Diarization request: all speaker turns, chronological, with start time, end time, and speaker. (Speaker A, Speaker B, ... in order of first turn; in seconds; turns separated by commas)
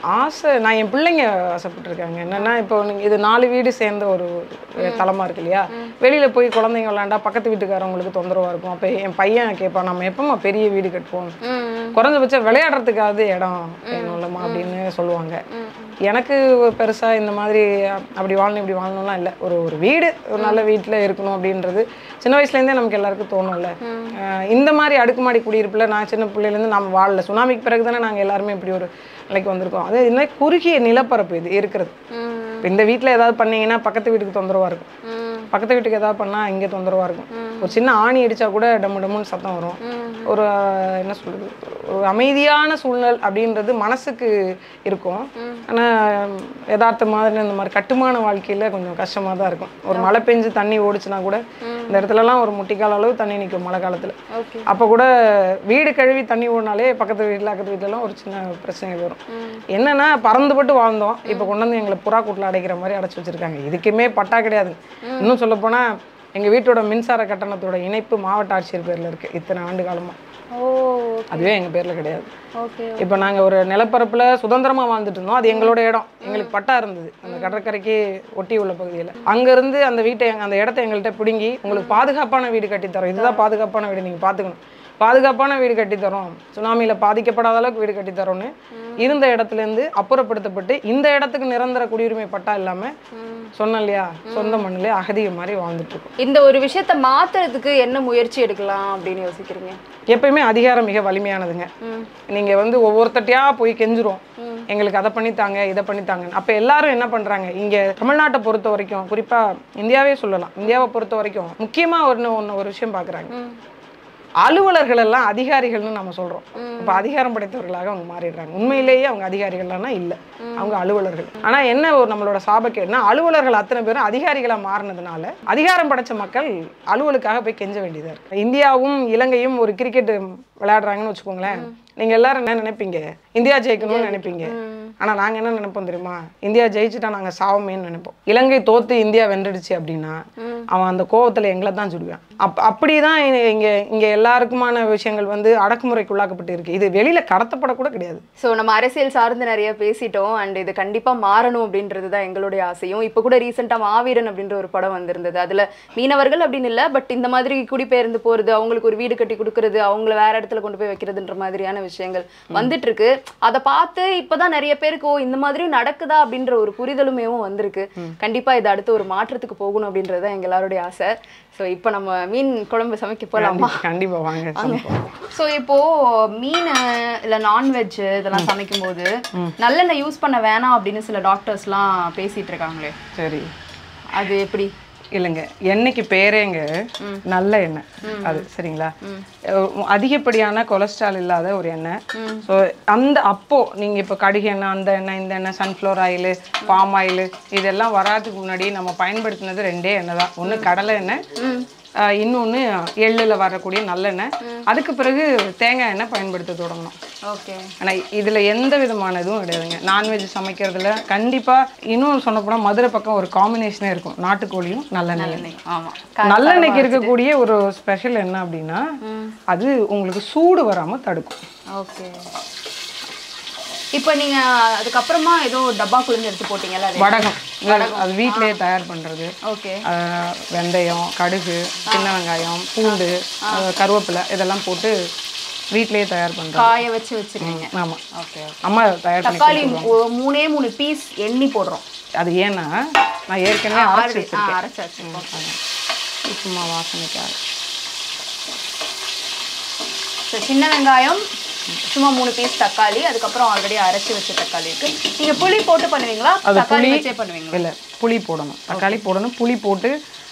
Speaker A: 0.1-11.3, Speaker B: 4.8-5.0, Speaker B: 11.4-11.9, Speaker A: 11.9-15.4, Speaker B: 13.9-14.7, Speaker B: 15.5-15.9, Speaker A: 16.0-31.9, Speaker B: 23.8-24.1, Speaker B: 32.1-32.7, Speaker A: 32.6-34.9, Speaker B: 35.0-35.5, Speaker A: 35.5-59.2, Speaker B: 37.3-37.8, Speaker B: 39.8-40.3, Speaker B: 45.4-45.6, Speaker B: 49.9-50.2, Speaker B: 51.6-52.0, Speaker B: 54.3-54.7, Speaker B: 59.3-59.6, Speaker A: 59.7-70.2, Speaker B: 61.3-61.5, Speaker B: 65.0-65.3, Speaker B: 70.5-71.5, Speaker A: 71.3-72.3, Speaker B: 72.6-73.3, Speaker A: 73.0-92.9, Speaker B: 75.5-76.5, Speaker B: 77.2-77.6, Speaker B: 81.7-82.0, Speaker B: 83.2-83.5, Speaker B: 88.7-89.0, Speaker B: 93.1-93.5, Speaker A: 93.5-96.1, Speaker B: 94.3-94.6, Speaker B: 96.2-99.8, Speaker A: 100.1-101.7, Speaker B: 101.8-102.1, Speaker A: 102.3-113.3, Speaker B: 104.4-104.7, Speaker B: 113.3-113.5, Speaker A: 114.4-148.2, Speaker B: 116.5-117.0, Speaker B: 118.7-118.9, Speaker B: 120.4-120.8, Speaker B: 133.8-134.9, Speaker B: 140.4-140.7, Speaker B: 148.4-173.8, Speaker A: 173.3-175.1, Speaker B: 174.5-182.9, Speaker A: 183.1-183.5, Speaker B: 184.1-184.7, Speaker A: 185.1-186.7, Speaker A: 187.2-188.9, Speaker B: 188.0-188.4, Speaker A: 189.4-201.2, Speaker B: 192.1-192.4, Speaker B: 201.3-201.7, Speaker A: 202.0-206.9, Speaker B: 207.2-207.7, Speaker A: 207.8-215.4, Speaker B: 215.2-217.1, Speaker A: 216.2-218.8, Speaker B: 219.0-219.3, Speaker A: 219.5-221.4, Speaker B: 221.7-222.3, Speaker B: 223.9-228.6, Speaker A: 226.9-234.9, Speaker B: 229.4-229.8, Speaker B: 232.8-233.7, Speaker A: 235.7-236.8, Speaker B: 236.5-238.6, Speaker A: 237.4-238.0, Speaker A: 238.6-239.9, Speaker B: 239.2-241.8, Speaker A: 242.2-245.6, Speaker B: 243.7-245.4, Speaker A: 246.2-247.4, Speaker B: 250.3-251.2, Speaker B: 251.8-257.6, Speaker A: 256.4-259.9, Speaker B: 258.7-259.0